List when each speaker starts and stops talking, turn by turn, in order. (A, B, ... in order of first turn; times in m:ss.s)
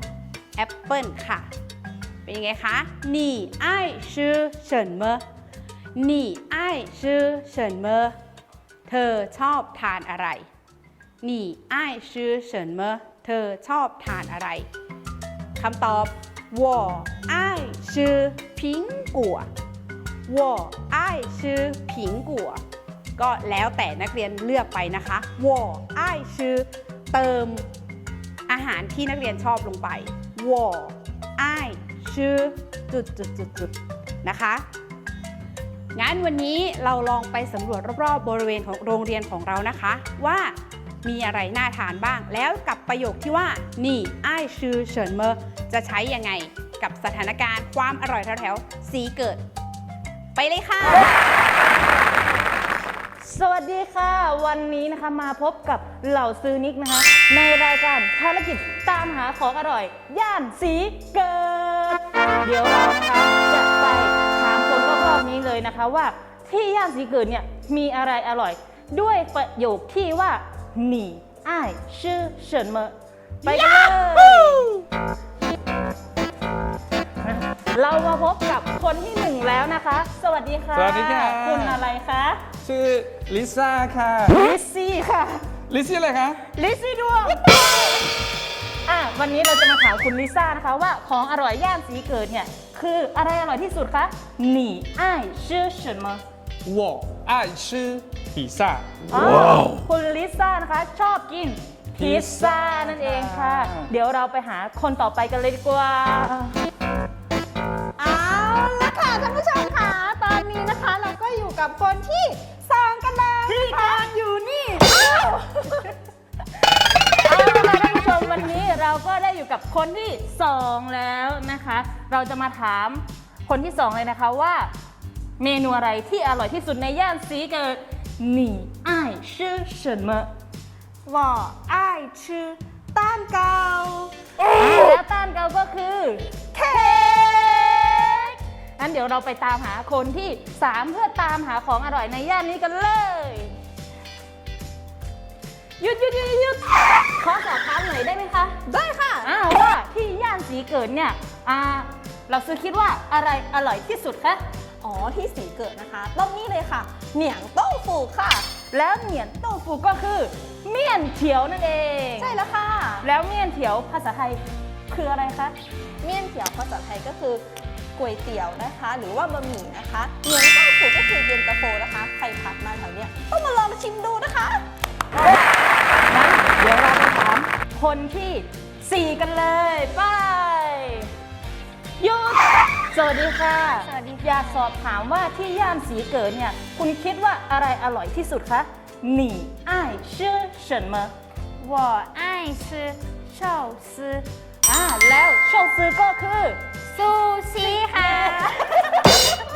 0:00.6-0:01.5 A
0:02.2-0:05.2 A
0:06.0-0:08.2 A
0:08.9-0:10.5 A
0:11.2-0:14.7 A
0:15.6-0:19.5 A
0:20.3-0:22.6 A
0:23.2-0:27.7 A
0:28.5-0:33.7 A
0:34.2-0:34.6 A
0:35.9-0:49.4 A
0:50.3-0:51.2 A
0:53.2-1:14.6 B
1:13.5-1:14.4 C
1:17.2-1:22.4 B
1:20.7-1:21.8 D
1:22.6-1:24.4 D
1:24.3-1:25.4 B
1:25.7-1:26.4 D
1:26.5-1:27.9 B
1:28.9-1:36.2 B
1:36.6-1:39.7 D
1:39.1-1:46.6 B
1:42.0-1:43.9 D
1:48.0-1:55.9 C
1:53.5-1:54.0 B
1:57.2-2:04.7 B
2:05.4-2:10.3 B
2:11.0-2:14.1 C
2:14.5-2:16.7 B
2:16.5-2:18.3 C
2:17.8-2:23.6 B
2:25.8-2:28.5 B
2:28.6-2:29.3 C
2:29.2-2:34.4 B
2:34.8-2:38.5 C
2:38.7-2:42.4 B
2:42.2-2:43.0 C
2:43.0-2:45.5 B
2:46.0-2:54.6 C
2:55.1-2:55.4 B
2:56.1-3:01.1 B
3:02.0-3:11.1 B
3:03.8-3:04.2 E
3:11.6-3:14.2 E
3:13.3-3:14.0 B
3:14.6-3:16.6 B
3:16.8-3:18.7 E
3:17.7-3:18.5 B